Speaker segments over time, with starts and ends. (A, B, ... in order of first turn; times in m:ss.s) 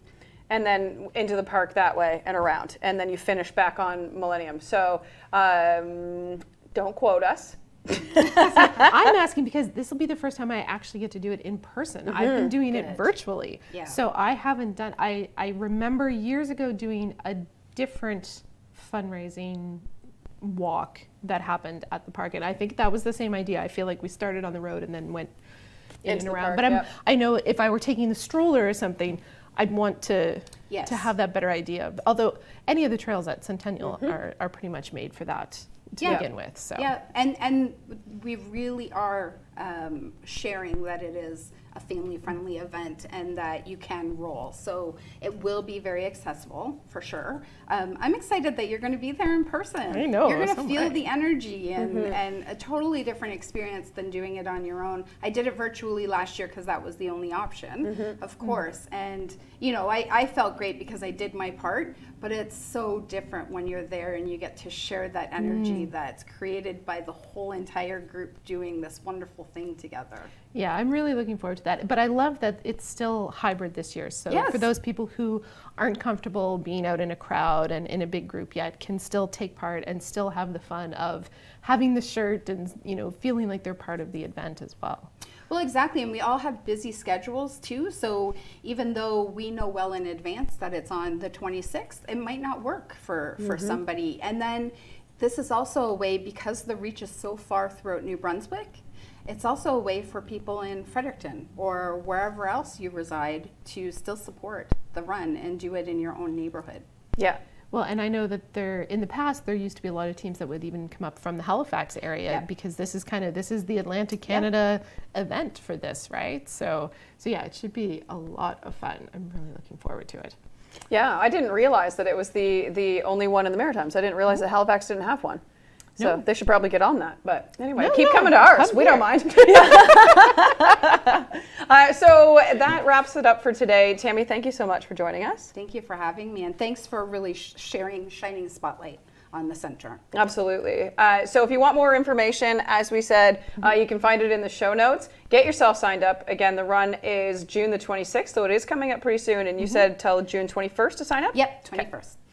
0:00.5-0:08.9 A
0:08.5-0:19.8 B
0:12.1-0:12.5 A
0:13.7-0:14.0 C
0:20.4-0:25.3 B
0:26.0-0:36.9 B
0:26.0-0:26.9 A
0:30.7-0:31.1 C
0:36.0-1:10.3 C
0:49.9-0:51.0 B
0:51.8-0:52.1 A
0:57.9-0:58.1 A
1:05.4-1:05.9 B
1:10.5-1:25.1 B
1:14.3-1:14.6 C
1:25.5-1:46.8 C
1:33.5-1:33.7 A
1:47.7-2:00.3 B
2:00.9-2:05.4 A
2:06.0-2:15.5 A
2:07.8-2:09.7 B
2:15.5-2:20.0 C
2:20.1-2:31.8 A
2:31.3-2:32.2 C